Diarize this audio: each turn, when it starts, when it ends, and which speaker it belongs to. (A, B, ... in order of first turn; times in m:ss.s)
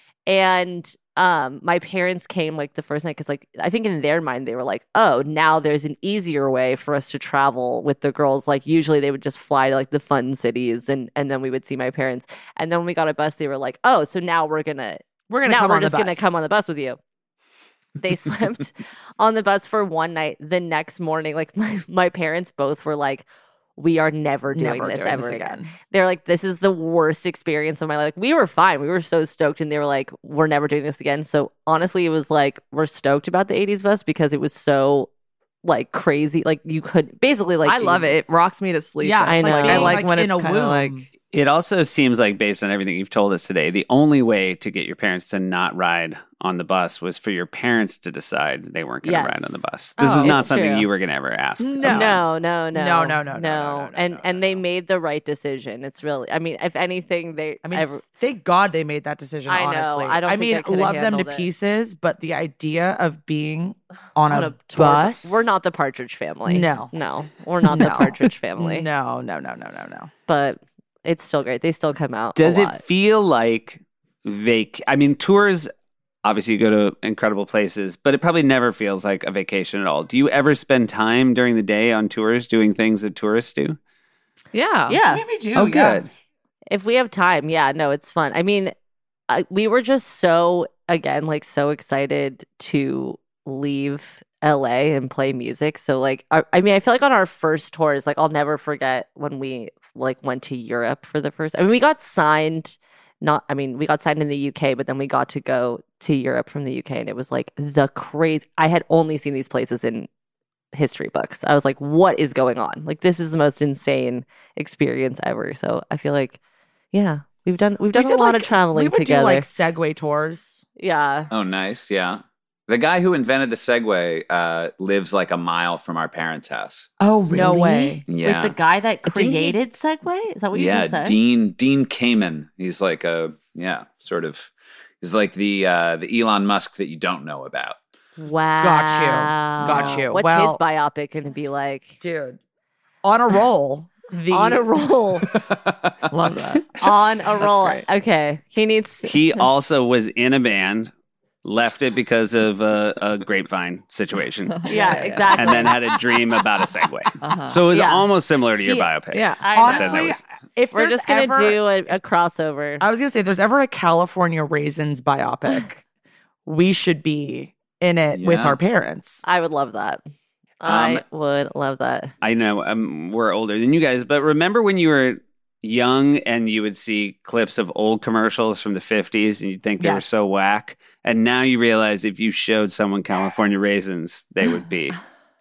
0:00.2-0:17.0 A
0:15.3-0:16.3 B
0:18.0-0:23.2 A
0:23.8-0:35.1 A
0:24.5-0:25.7 B
0:35.6-0:38.2 A
0:37.6-0:41.0 C
0:39.0-0:41.0 B
0:39.3-0:40.0 A
0:41.3-0:52.2 D
0:49.0-0:50.9 A
0:50.0-0:50.4 B
0:51.6-0:54.6 B
0:51.8-0:58.0 A
0:57.6-1:05.6 B
0:59.5-1:01.5 A
1:04.3-1:08.9 A
1:06.4-1:06.9 B
1:07.6-1:10.1 B
1:10.3-1:12.8 A
1:12.4-1:15.7 D
1:16.2-1:23.8 D
1:24.5-1:25.0 C
1:24.9-1:25.2 A
1:25.1-1:26.0 B
1:25.5-1:26.1 D
1:26.7-1:28.7 A
1:29.3-1:50.1 A
1:50.7-1:56.4 A
1:56.9-1:59.4 A
1:57.9-2:00.6 B
2:00.8-2:01.3 A
2:01.3-2:06.9 E
2:07.0-2:08.0 B
2:07.3-2:08.0 C
2:08.1-2:08.6 E
2:08.2-2:11.2 A
2:09.1-2:09.5 C
2:10.5-2:17.8 E
2:18.2-2:22.0 A
2:18.6-2:20.6 B
2:19.6-2:20.0 C
2:22.0-2:22.4 B
2:23.0-2:24.7 B
2:24.3-2:25.3 A
2:25.2-2:26.0 E
2:26.1-2:26.9 C
2:26.8-2:29.4 A
2:27.4-2:27.8 C
2:29.0-2:30.9 D
2:31.4-2:34.7 D
2:34.5-2:35.7 C
2:34.7-2:35.8 A
2:35.2-2:40.2 D
2:37.2-2:37.6 C
2:37.7-2:40.0 A
2:39.1-2:40.2 C
2:39.5-2:41.6 B
2:40.7-2:42.8 A
2:42.8-2:45.8 B
2:46.4-2:49.2 B
2:48.1-2:48.6 E
2:49.2-2:50.0 A
2:50.6-2:52.1 A
2:50.6-2:51.0 E
2:52.2-3:05.0 D
2:59.8-3:00.2 B